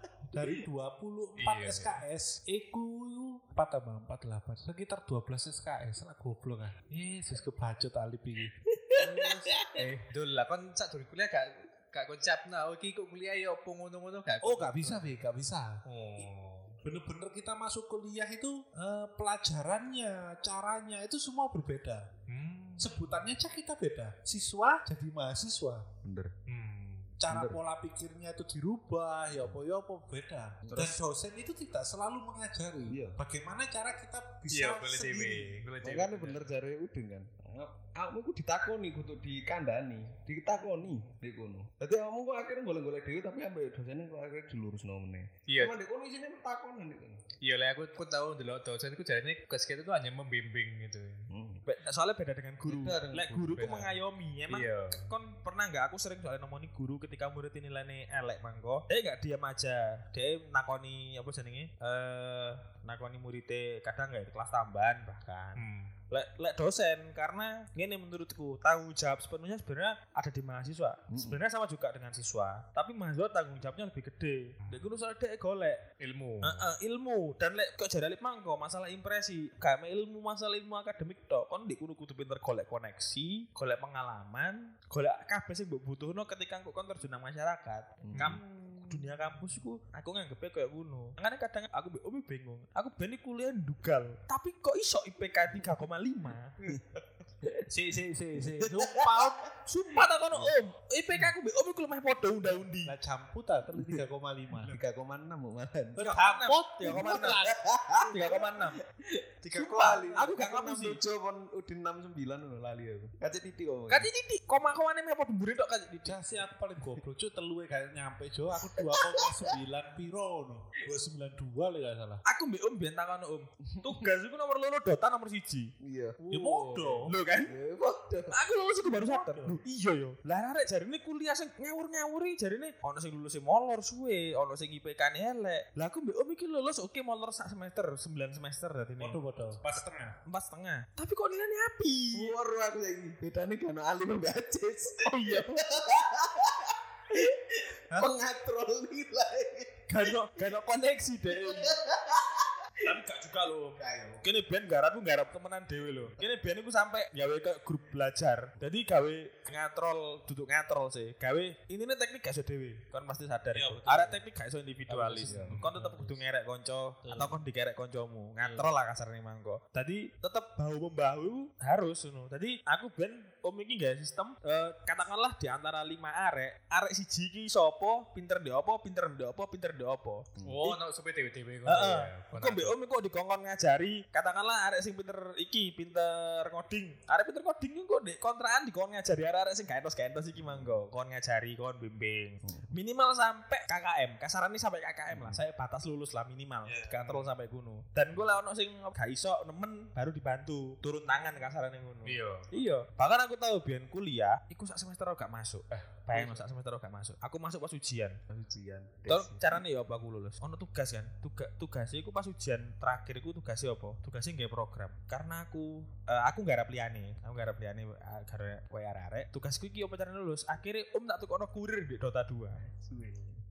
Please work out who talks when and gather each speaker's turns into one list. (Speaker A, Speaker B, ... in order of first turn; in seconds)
Speaker A: 0.3-9.5, 14.4-16.3, 16.8-22.1, 22.8-25.9, 27.2-35.6, 97.7-99.5, 102.8-104.7, 106.0-107.6, 109.4-110.3, 116.0-122.2, 126.3-127.2, 128.9-129.6, 139.0-140.2, 163.6-164.1, 164.9-166.2, 167.0-167.4
Speaker B: 1.4-2.0, 9.7-15.2, 15.8-16.8, 22.3-22.9, 26.5-27.1, 34.5-36.5, 45.5-45.8, 47.4-51.3, 53.5-54.0, 54.5-55.1, 65.5-65.9, 76.0-76.7, 126.3-127.1, 165.1-165.7, 180.4-182.7, 196.6-197.3, 202.1-202.5, 205.7-206.5
Speaker C: 8.7-9.8, 26.0-26.3, 27.3-27.6, 30.6-31.0, 32.9-33.2, 35.8-47.2, 51.3-51.6, 52.6-53.7, 71.1-71.4, 88.0-88.4, 96.7-97.5, 98.4-99.5, 103.7-104.0, 104.6-106.2, 106.8-114.1, 118.8-119.3, 123.7-124.0, 125.8-126.2, 127.4-128.3, 142.1-150.5, 151.3-153.0, 153.8-154.2, 165.2-165.6, 180.4-180.6, 190.4-190.8, 192.4-192.7, 195.1-195.4, 208.3-209.6, 222.6-223.3
Speaker D: 51.6-75.9, 76.4-96.5, 99.6-102.9, 106.0-108.8, 109.6-111.0, 113.9-116.2, 122.3-125.7, 127.0-127.5, 128.3-139.2, 140.3-142.3, 145.0-145.5, 149.9-151.7, 152.8-180.8, 181.7-208.2, 209.1-222.6